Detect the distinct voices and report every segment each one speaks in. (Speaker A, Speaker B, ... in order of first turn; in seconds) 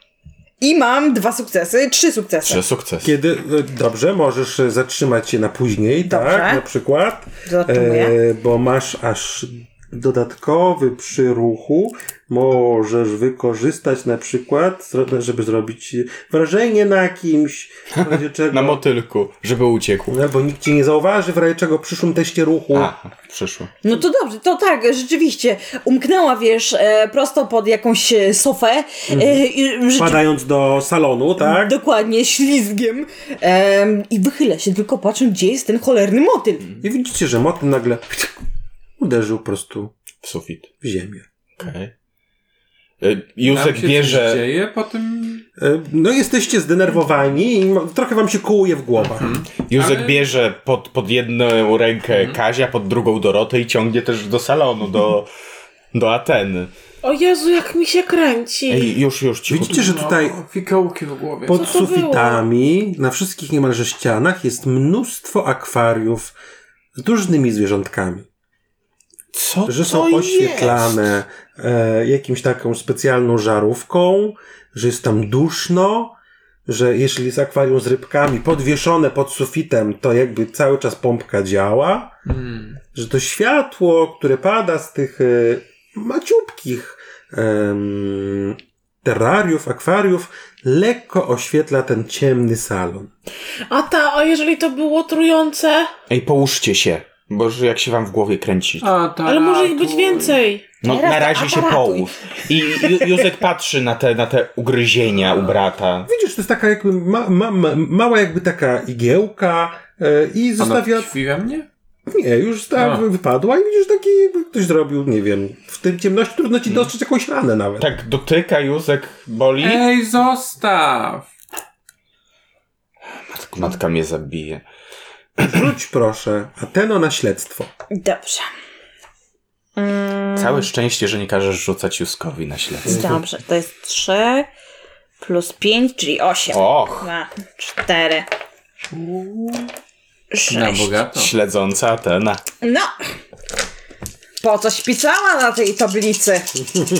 Speaker A: 0.6-2.6, 6.0-6.6, 7.5-8.1, 23.8-30.2, 31.4-36.7, 100.8-103.0, 127.9-128.5, 129.8-130.7, 132.8-134.5, 135.2-138.3, 140.3-140.9, 142.6-142.9, 144.4-146.6
Speaker B: 2.5-3.1, 18.0-20.2, 22.7-23.7, 40.2-40.7, 41.6-41.9, 43.0-44.4, 49.7-55.3, 55.9-56.7, 58.7-59.9, 69.3-71.1, 96.1-98.9, 100.8-106.1, 117.8-119.8, 123.2-124.6, 130.4-133.1, 136.5-137.1, 141.1-142.4
Speaker C: 3.0-18.8, 20.1-22.9, 29.1-31.7, 36.8-38.4, 39.0-39.9, 40.8-41.2, 45.6-49.4, 59.5-60.4, 61.5-66.3, 67.0-68.3, 69.7-82.2, 82.9-93.1, 106.1-111.1, 112.1-117.9, 125.4-127.7
Speaker D: 43.4-45.5, 49.0-50.2, 52.1-52.4, 59.6-61.8, 82.2-82.8, 98.8-100.4, 110.6-111.7, 112.8-113.0, 119.6-121.3, 138.9-139.7, 140.5-141.3
Speaker E: 57.0-58.9, 61.5-62.4, 93.7-95.9, 99.2-100.7